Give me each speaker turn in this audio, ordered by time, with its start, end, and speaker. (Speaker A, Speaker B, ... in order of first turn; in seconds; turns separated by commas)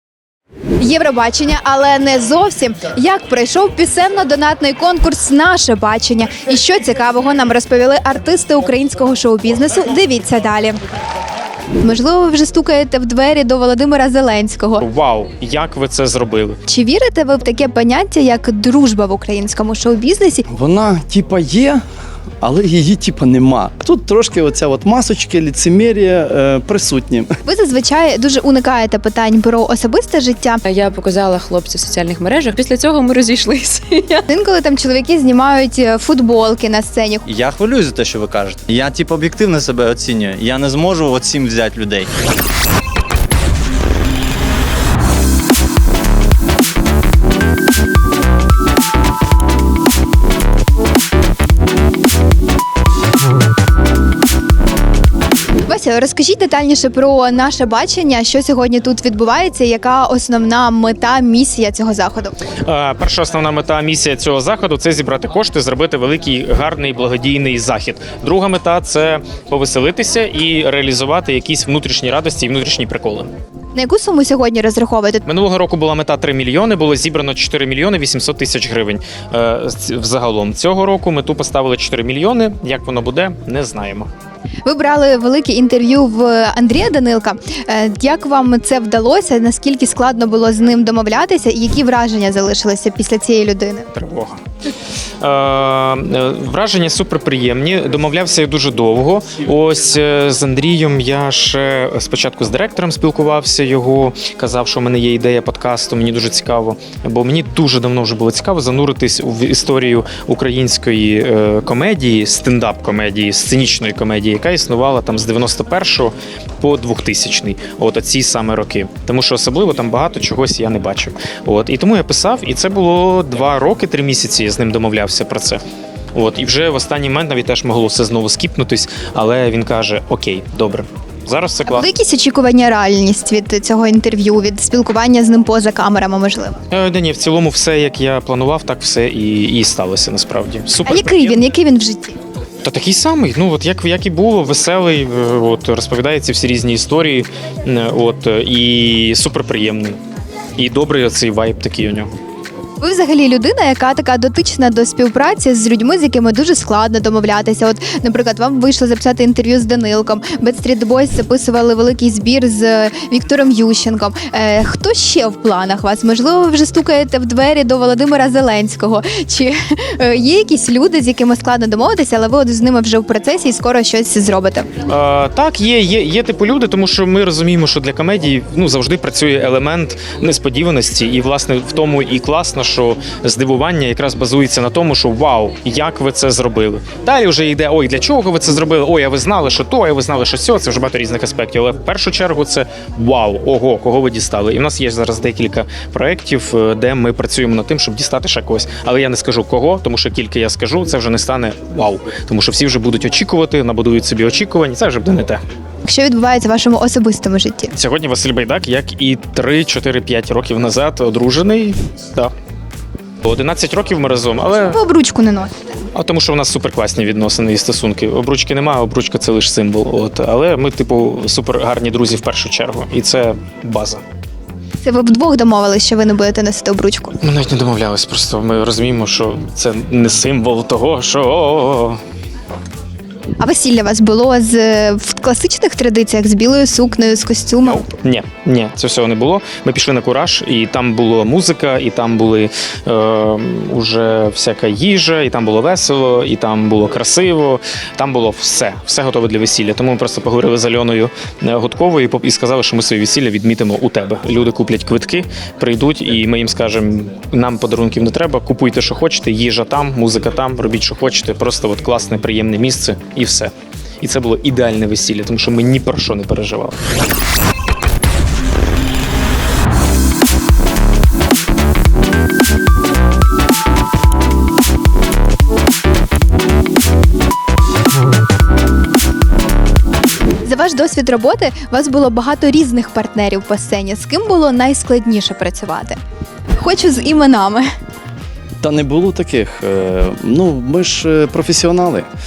Speaker A: 0.8-10.8, Speaker A: 11.8-14.8, Speaker B: 14.8-16.6, Speaker A: 16.7-20.4, Speaker C: 20.5-21.8, Speaker C: 22.4-27.3, Speaker A: 27.4-30.6, Speaker D: 30.7-34.2, Speaker A: 34.3-37.2, Speaker E: 37.2-42.1, Speaker A: 55.6-62.4, Speaker B: 62.6-73.3, Speaker A: 73.8-75.2, Speaker B: 75.2-84.1, Speaker A: 84.7-93.9, Speaker B: 94.0-94.4, Speaker B: 95.2-125.6, Speaker B: 126.2-131.9, Speaker A: 131.7-136.6, Speaker B: 136.7-141.4, Speaker A: 140.9-142.2, Speaker B: 142.6-150.0, Speaker B: 150.6-152.1, Speaker A: 152.8-174.7, Speaker B: 174.9-205.4, Speaker A: 205.8-207.7, Speaker B: 207.7-212.3, Speaker B: 213.2-214.8, Speaker A: 214.7-215.7, Speaker B: 215.9-224.0, Speaker A: 224.8-227.2, Speaker B: 227.2-232.0, Speaker A: 233.4-237.9, Speaker B: 237.7-266.8, Speaker A: 280.4-286.0, Speaker A: 286.6-287.7, Speaker C: 288.6-292.1